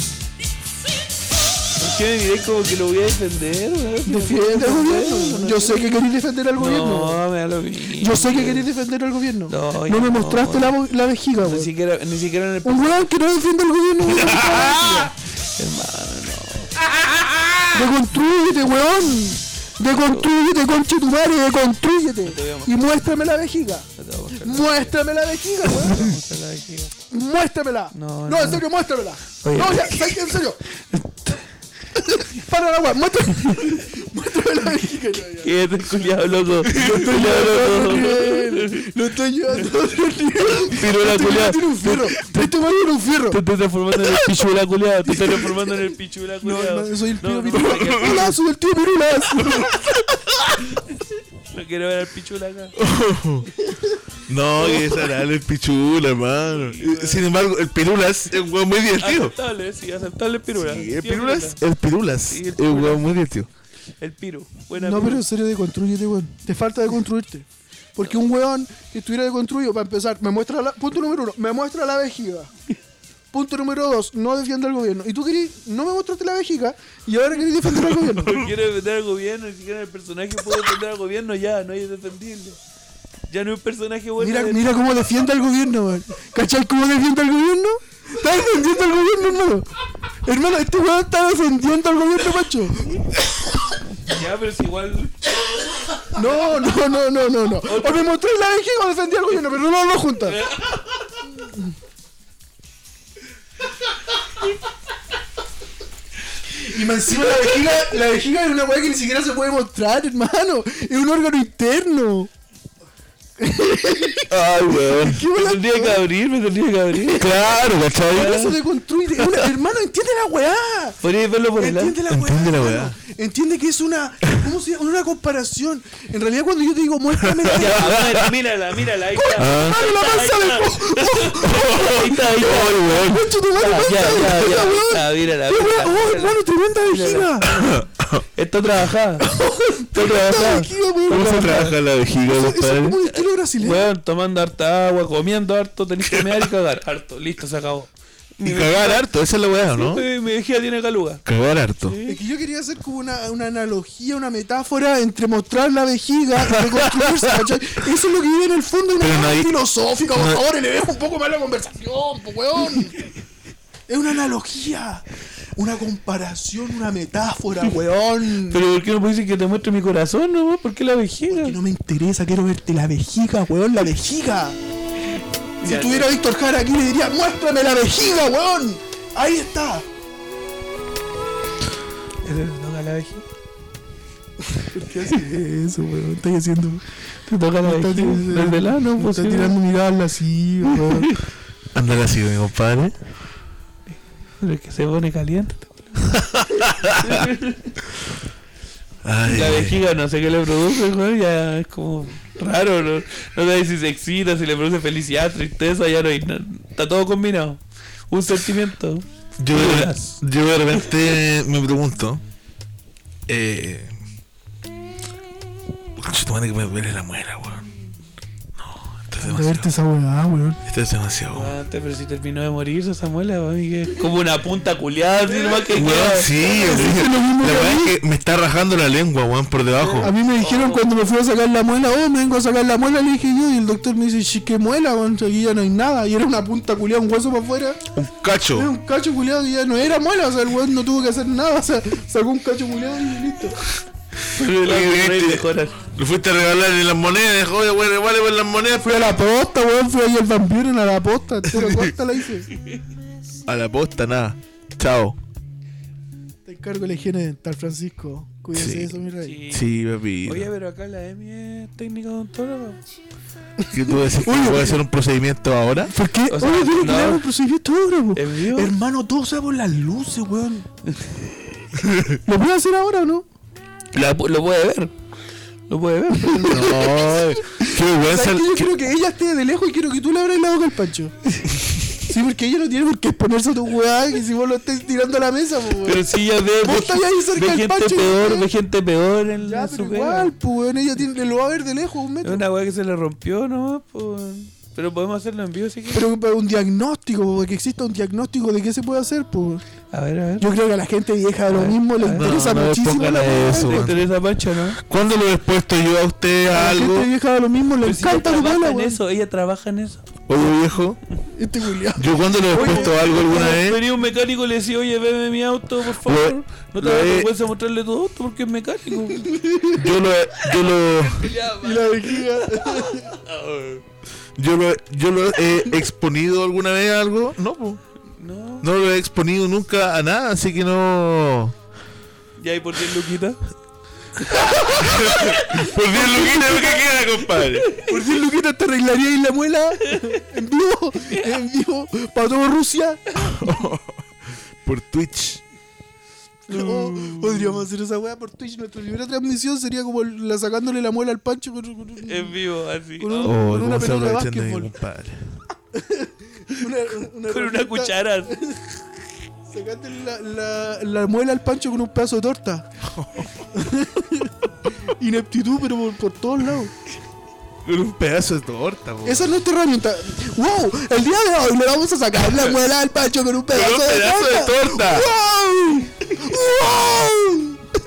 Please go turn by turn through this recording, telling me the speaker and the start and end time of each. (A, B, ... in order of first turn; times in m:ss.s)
0:01.8-0:06.0 A
0:04.0-0:07.2 B
0:06.6-0:08.7 A
0:07.9-0:11.7 B
0:09.5-0:10.8 A
0:11.4-0:13.1 A
0:12.6-0:15.1 B
0:14.1-0:15.1 C
0:15.6-0:16.7 A
0:16.9-0:17.8 C
0:17.7-0:26.1 B
0:22.2-0:22.8 A
0:24.0-0:24.9 A
0:25.7-0:26.9 A
0:27.1-0:30.6 B
0:27.9-0:28.6 A
0:29.4-0:30.1 A
0:30.9-0:31.4 A
0:32.2-0:43.4 B
0:35.4-0:38.9 A
0:36.8-0:37.4 C
0:40.5-0:42.0 A
0:43.3-0:48.2 A
0:44.0-0:44.4 B
0:45.0-0:45.9 B
0:46.4-0:49.9 B
0:47.7-0:48.3 C
0:49.4-0:50.5 C
0:51.5-0:52.7 A
0:52.8-0:53.5 C
0:54.3-0:59.3 C
0:54.6-0:55.1 A
0:56.6-0:57.3 A
0:59.0-1:01.6 A
1:00.5-1:03.5 C
1:02.3-1:03.1 A
1:04.0-1:05.2 A
1:04.7-1:12.5 B
1:13.3-1:18.5 B
1:18.1-1:22.6 A
1:23.3-1:24.7 A
1:24.2-1:29.7 B
1:30.2-1:32.8 B
1:34.0-1:35.4 A
1:36.1-1:40.4 B
1:37.6-1:38.0 A
1:40.2-1:40.8 A
1:41.2-1:41.8 B
1:46.5-1:52.3 B
1:53.4-1:54.3 B
1:54.3-1:55.2 C
1:55.0-1:56.0 B
1:55.3-1:58.6 A
1:57.0-1:58.4 C
1:58.1-2:01.0 B
2:01.0-2:02.0 A
2:01.6-2:08.2 B
2:02.1-2:03.0 C
2:07.2-2:08.3 C
2:07.5-2:17.8 A
2:09.1-2:17.7 B
2:09.4-2:09.8 C
2:11.4-2:13.2 C
2:17.5-2:18.2 C
2:18.4-2:19.4 A
2:19.2-2:23.9 B
2:19.9-2:21.8 A
2:21.1-2:23.0 C
2:23.6-2:29.0 A
2:28.4-2:30.1 C
2:29.7-2:31.2 A
2:31.2-2:32.0 C
2:31.8-2:32.2 A
2:32.0-2:43.0 B
2:36.5-2:37.3 C
2:39.0-2:39.5 C
2:40.1-2:40.4 C
2:43.9-2:48.6 B
2:48.5-2:51.6 A
2:51.3-2:54.6 B
2:55.6-2:56.1 A
2:55.6-2:59.8 B
3:02.2-3:03.2 A
3:04.4-3:06.8 B
3:07.2-3:09.5 A
3:07.6-3:11.1 B
3:10.8-3:11.2 A
3:11.7-3:12.9 C
3:14.4-3:16.1 A
3:16.1-3:17.2 C
3:17.0-3:17.7 A
3:19.0-3:19.8 C
3:19.2-3:30.2 A
3:29.4-3:32.2 C
3:33.3-3:33.9 C
3:36.0-3:37.6 C
3:38.6-3:39.7 C
3:39.2-3:40.6 B
3:40.7-3:41.5 C
3:41.3-3:46.8 A
3:45.7-3:50.1 C
3:46.3-3:48.0 B
3:49.8-3:50.8 A
3:50.0-3:57.9 B
3:58.0-3:58.7 C
3:58.5-4:03.6 B
4:04.3-4:09.0 C
4:04.3-4:05.8 A
4:08.8-4:12.5 B
4:11.6-4:11.8 C
4:13.5-4:15.2 C
4:16.4-4:19.4 B
4:18.5-4:18.9 C
4:19.2-4:19.6 A
4:19.5-4:20.5 C
4:20.2-4:22.8 A
4:23.6-4:24.8 B
4:23.7-4:25.9 C
4:25.8-4:30.7 B
4:26.3-4:27.2 A
4:28.2-4:28.7 A
4:30.9-4:31.2 A
4:31.8-4:32.2 C
4:32.2-4:33.2 B
4:33.9-4:34.9 A
4:35.7-4:36.9 A
4:36.1-4:41.1 B
4:36.5-4:38.7 C
4:41.9-4:46.0 B
4:45.8-4:50.3 A
4:46.6-4:48.5 B
4:49.4-4:52.4 B
4:52.2-4:56.0 A
4:55.9-4:59.6 B
4:59.9-5:00.5 A
5:00.4-5:03.9 B
5:01.5-5:04.8 A
5:02.1-5:04.1 C
5:04.9-5:07.1 C
5:06.5-5:09.0 B
5:07.8-5:10.0 A
5:10.3-5:11.0 C
5:11.3-5:13.6 B
5:12.0-5:13.8 C
5:12.5-5:19.3 A
5:16.0-5:17.3 C
5:19.1-5:19.9 B
5:19.7-5:21.3 C
5:21.0-5:23.8 A
5:21.6-5:23.2 B
5:24.4-5:27.8 C
5:28.2-5:28.7 A
5:28.6-5:31.5 C
5:32.4-5:33.4 A
5:34.2-5:38.0 A
5:34.3-5:37.7 C
5:37.8-5:43.3 B
5:39.8-5:40.2 A
5:43.3-5:44.0 C
5:44.6-5:45.4 C
5:46.5-5:52.4 B
5:46.5-5:47.6 A
5:52.0-5:53.6 A
5:53.0-5:54.7 B
5:53.2-5:55.3 C
5:55.7-5:58.6 B
5:57.3-5:58.4 A
5:59.4-6:02.7 B
6:02.8-6:03.4 C
6:03.5-6:06.7 B
6:07.6-6:09.3 C
6:09.0-6:17.6 B
6:13.5-6:15.1 C